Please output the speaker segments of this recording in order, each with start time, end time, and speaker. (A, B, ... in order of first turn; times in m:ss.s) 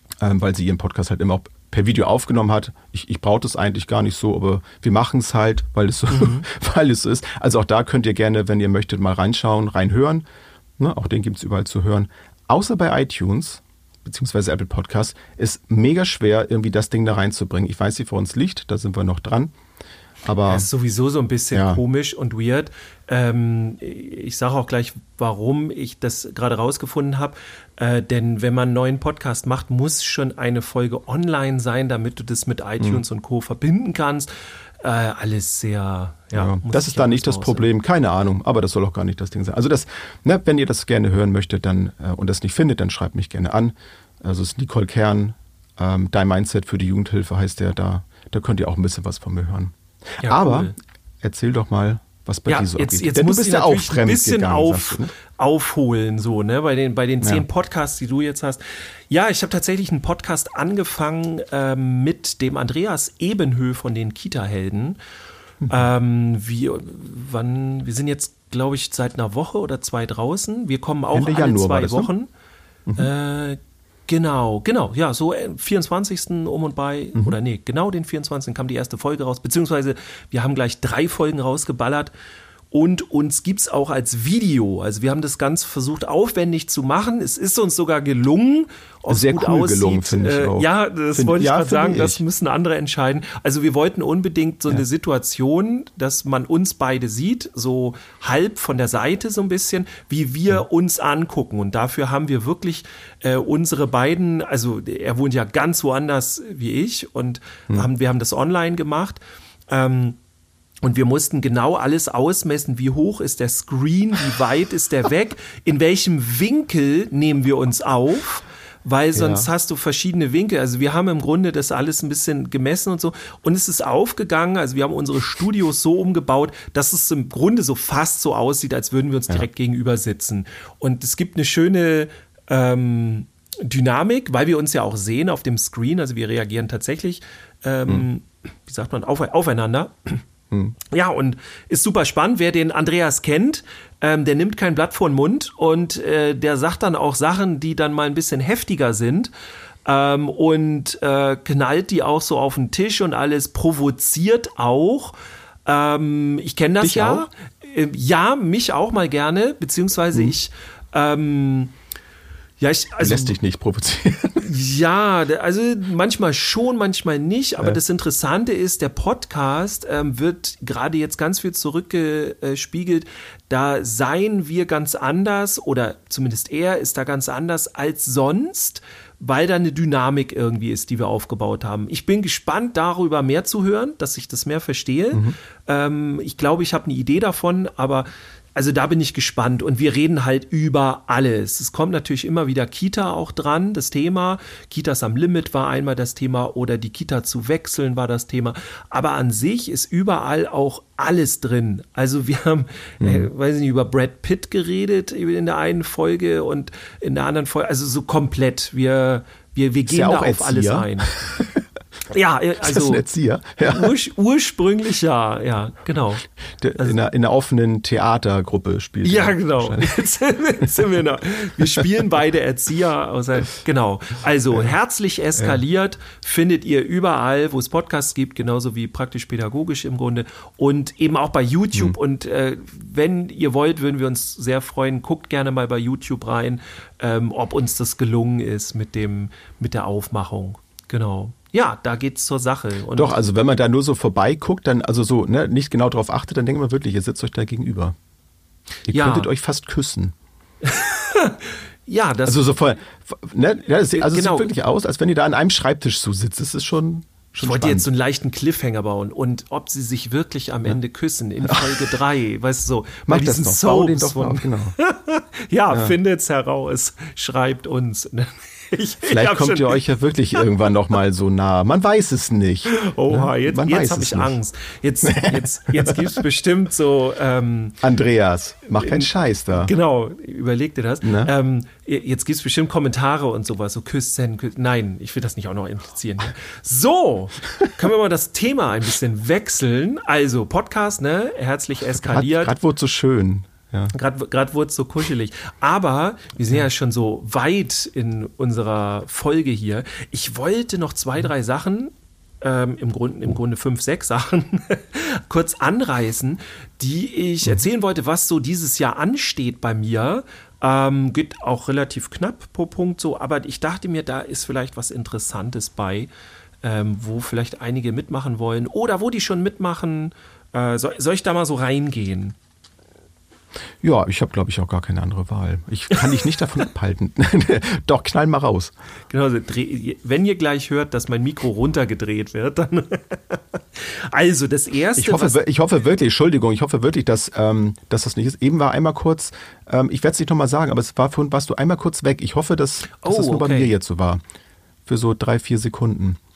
0:00.2-0:10.2 A
0:06.1-0:06.4 B
0:10.8-0:19.5 A
0:20.2-0:20.7 A
0:20.4-0:37.7 B
0:21.5-0:21.8 A
0:36.3-0:55.1 A
0:50.2-0:50.7 B
0:52.5-1:05.0 B
1:05.7-1:12.3 B
1:11.1-1:12.1 A
1:13.0-1:22.1 B
1:22.7-1:50.2 B
1:29.1-1:32.2 A
1:50.8-2:20.2 B
1:59.1-1:59.5 A
2:20.8-2:29.3 B
2:29.8-2:35.1 B
2:35.6-2:41.7 B
2:36.8-2:37.3 A
2:42.6-2:43.4 B
2:43.0-2:44.5 A
2:44.4-3:31.1 B
3:23.0-3:23.3 A
3:29.9-3:31.6 A
3:32.1-3:33.0 B
3:32.6-3:33.9 A
3:33.6-3:36.2 B
3:36.6-3:40.0 A
3:39.0-4:03.2 B
3:45.4-3:45.6 A
4:02.9-4:07.9 A
4:08.9-4:10.1 A
4:08.9-4:09.3 B
4:10.6-4:12.5 B
4:12.2-4:17.9 A
4:13.9-4:14.5 B
4:17.4-4:29.8 B
4:21.4-4:21.9 A
4:23.1-4:24.7 A
4:29.0-4:34.4 A
4:32.7-4:37.8 B
4:35.0-4:36.2 A
4:37.8-4:39.7 A
4:38.7-4:52.5 B
4:41.0-4:41.3 A
4:52.0-4:53.9 A
4:53.9-5:16.1 B
5:16.6-5:22.4 B
5:23.8-5:28.7 A
5:29.1-5:35.4 B
5:35.0-5:44.2 A
5:43.0-5:43.7 B
5:44.8-5:46.2 A